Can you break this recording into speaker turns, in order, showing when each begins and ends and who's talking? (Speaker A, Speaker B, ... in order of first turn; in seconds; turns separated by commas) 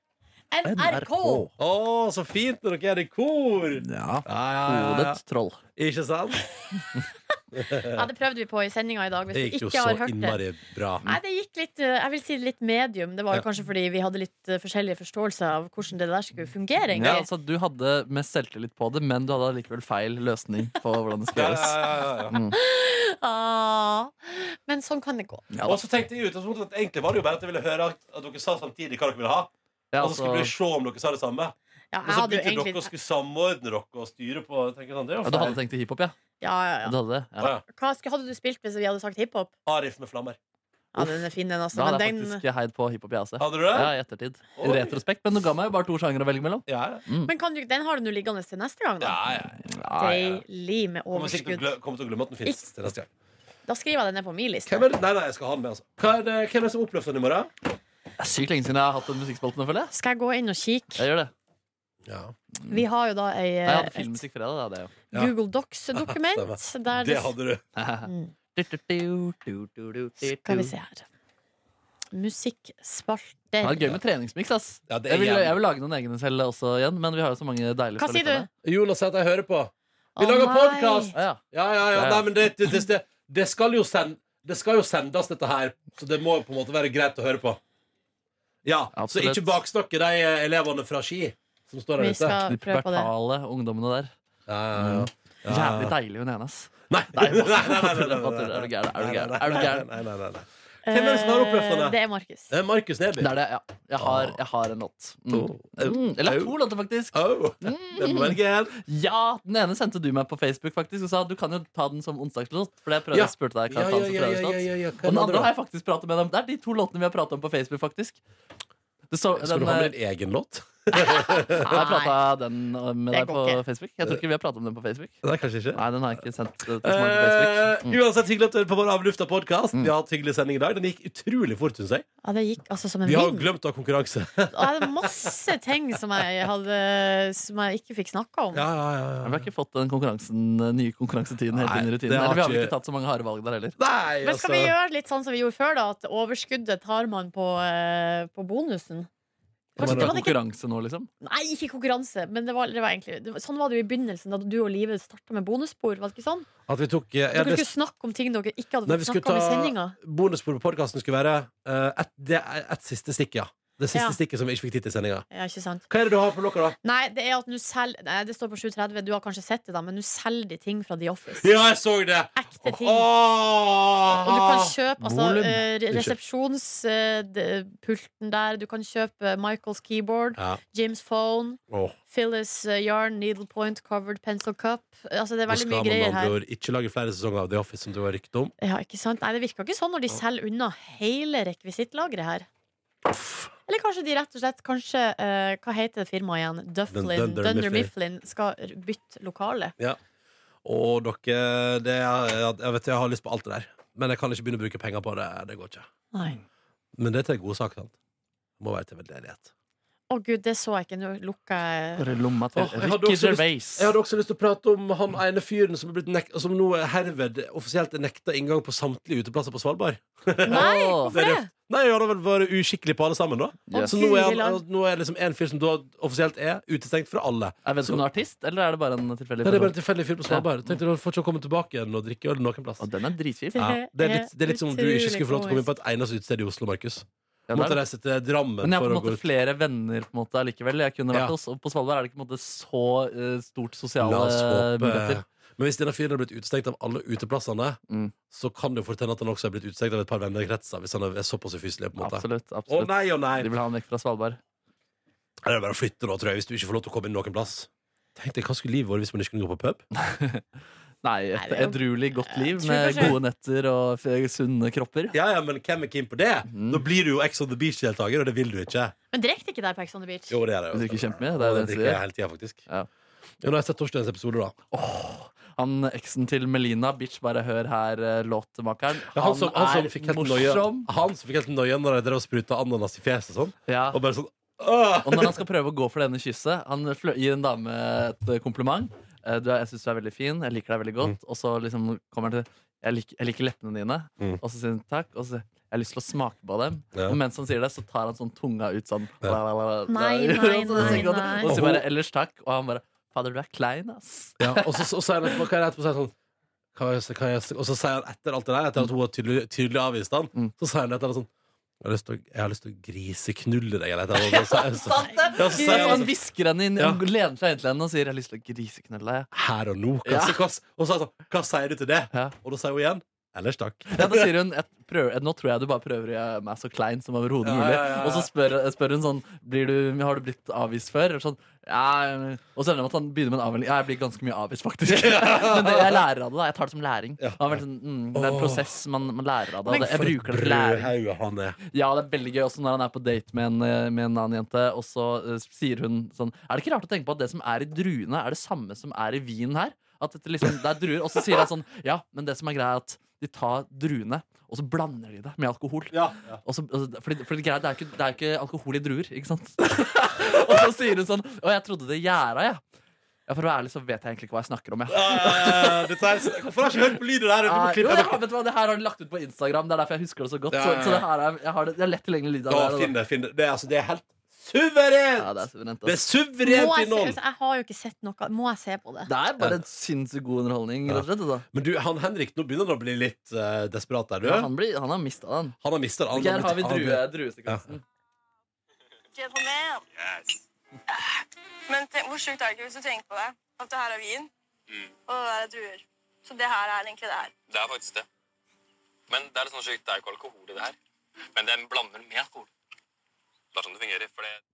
Speaker A: 0.5-1.5, Speaker B: 0.7-1.5, Speaker C: 1.6-5.2, Speaker B: 3.8-5.6, Speaker C: 5.8-6.5, Speaker C: 7.5-8.0, Speaker A: 7.9-10.4, Speaker C: 9.3-11.1, Speaker A: 11.0-17.3, Speaker B: 16.9-22.6, Speaker C: 21.3-22.3, Speaker A: 22.5-25.5, Speaker B: 25.5-25.8, Speaker C: 25.6-31.5, Speaker B: 29.9-30.5, Speaker A: 31.9-32.9, Speaker C: 32.0-35.6, Speaker B: 35.2-36.1, Speaker A: 36.4-37.0, Speaker B: 36.8-37.5, Speaker A: 37.6-39.5, Speaker C: 39.6-40.4, Speaker A: 40.9-42.4, Speaker B: 41.7-47.3, Speaker C: 43.4-43.9, Speaker C: 44.6-45.0, Speaker C: 46.7-47.0, Speaker A: 47.2-49.2, Speaker C: 49.0-49.7, Speaker B: 49.6-50.4, Speaker A: 49.9-51.7, Speaker C: 51.1-53.1, Speaker A: 53.7-54.9, Speaker C: 54.7-57.5, Speaker B: 58.2-59.9, Speaker A: 59.9-61.0, Speaker B: 61.0-61.3, Speaker C: 62.0-62.3, Speaker A: 62.7-64.2, Speaker B: 63.6-65.0, Speaker A: 65.1-67.3, Speaker C: 66.0-67.6, Speaker B: 67.8-70.7, Speaker A: 68.0-68.3, Speaker A: 70.2-71.0, Speaker A: 72.1-73.9, Speaker B: 73.6-78.5, Speaker C: 74.9-75.5, Speaker A: 78.0-78.5, Speaker C: 78.6-87.6, Speaker A: 80.2-81.2, Speaker B: 81.1-82.3, Speaker C: 88.6-92.4, Speaker B: 88.9-89.6, Speaker A: 92.0-93.1, Speaker B: 92.5-94.1, Speaker C: 94.5-95.9, Speaker B: 94.7-99.9, Speaker C: 96.9-102.0, Speaker A: 100.8-102.5, Speaker C: 102.5-103.3, Speaker B: 103.2-118.2, Speaker C: 104.0-104.4, Speaker C: 105.3-106.5, Speaker C: 107.1-108.8, Speaker C: 113.1-115.5, Speaker B: 119.1-119.9, Speaker C: 119.4-121.7, Speaker A: 121.2-122.2, Speaker B: 121.7-125.2, Speaker A: 123.1-123.6, Speaker C: 125.2-125.8, Speaker B: 125.7-128.0, Speaker C: 126.8-132.0, Speaker A: 132.2-133.5, Speaker C: 133.0-135.3, Speaker A: 134.5-138.6, Speaker C: 138.5-139.4, Speaker B: 139.2-143.8, Speaker C: 141.5-142.7, Speaker C: 143.8-144.7, Speaker A: 144.2-149.1, Speaker A: 149.7-150.3, Speaker B: 149.8-151.1, Speaker C: 149.8-150.1, Speaker A: 151.2-156.5, Speaker C: 156.7-157.7, Speaker A: 157.3-160.0, Speaker C: 158.9-165.2, Speaker A: 165.3-165.8, Speaker C: 165.9-166.8, Speaker A: 166.8-171.5, Speaker C: 171.4-176.1, Speaker A: 172.3-173.1, Speaker A: 174.2-186.3, Speaker B: 175.2-175.6, Speaker C: 181.7-181.9, Speaker C: 185.5-188.5, Speaker A: 188.6-192.4, Speaker C: 193.1-193.5, Speaker A: 193.7-199.7, Speaker C: 196.9-197.9, Speaker C: 200.6-205.8, Speaker A: 206.1-206.4, Speaker C: 206.9-207.9, Speaker C: 208.6-209.5, Speaker A: 210.1-212.0, Speaker B: 212.0-213.9, Speaker C: 212.6-228.0, Speaker B: 220.4-221.1, Speaker A: 220.4-221.5, Speaker B: 223.7-224.0, Speaker A: 223.7-224.6, Speaker B: 227.6-230.8, Speaker C: 229.4-232.8, Speaker B: 232.8-233.6, Speaker A: 233.5-235.7, Speaker C: 233.6-239.2, Speaker B: 237.5-237.8, Speaker B: 238.6-245.2, Speaker C: 244.0-247.8, Speaker B: 247.9-248.1, Speaker C: 248.3-253.5, Speaker B: 252.0-254.4, Speaker C: 255.4-259.8, Speaker B: 260.0-260.4, Speaker B: 261.0-265.1, Speaker A: 261.4-263.2, Speaker C: 265.1-268.9, Speaker B: 266.5-266.8, Speaker A: 269.1-270.4, Speaker C: 270.3-272.6, Speaker B: 270.7-272.0, Speaker C: 273.4-274.5, Speaker B: 274.7-280.9, Speaker C: 279.1-285.4, Speaker B: 283.7-284.0, Speaker B: 285.0-305.4, Speaker A: 299.9-301.5, Speaker C: 300.8-301.8, Speaker C: 304.4-306.1, Speaker C: 306.7-311.3, Speaker C: 311.8-316.1, Speaker B: 314.1-319.3, Speaker A: 315.1-316.0, Speaker C: 316.8-317.0, Speaker C: 319.3-324.3, Speaker B: 320.0-320.4, Speaker B: 323.9-340.9, Speaker C: 327.4-328.3, Speaker C: 334.9-336.0, Speaker C: 337.2-337.5, Speaker C: 338.1-338.7, Speaker C: 339.7-341.6, Speaker B: 341.6-362.6, Speaker C: 355.9-356.4, Speaker B: 363.3-366.0, Speaker C: 364.9-368.2, Speaker B: 367.4-372.9, Speaker C: 370.5-371.1, Speaker C: 372.5-377.2, Speaker B: 375.2-376.0, Speaker A: 376.4-379.1, Speaker B: 379.1-381.4, Speaker C: 380.9-384.5, Speaker B: 384.2-385.6, Speaker C: 385.6-387.7, Speaker B: 386.1-387.8, Speaker D: 389.1-389.8, Speaker E: 389.9-390.4, Speaker D: 391.7-394.3, Speaker D: 395.1-397.3, Speaker E: 397.5-398.1, Speaker E: 399.1-400.8, Speaker E: 401.3-402.5, Speaker E: 403.5-404.4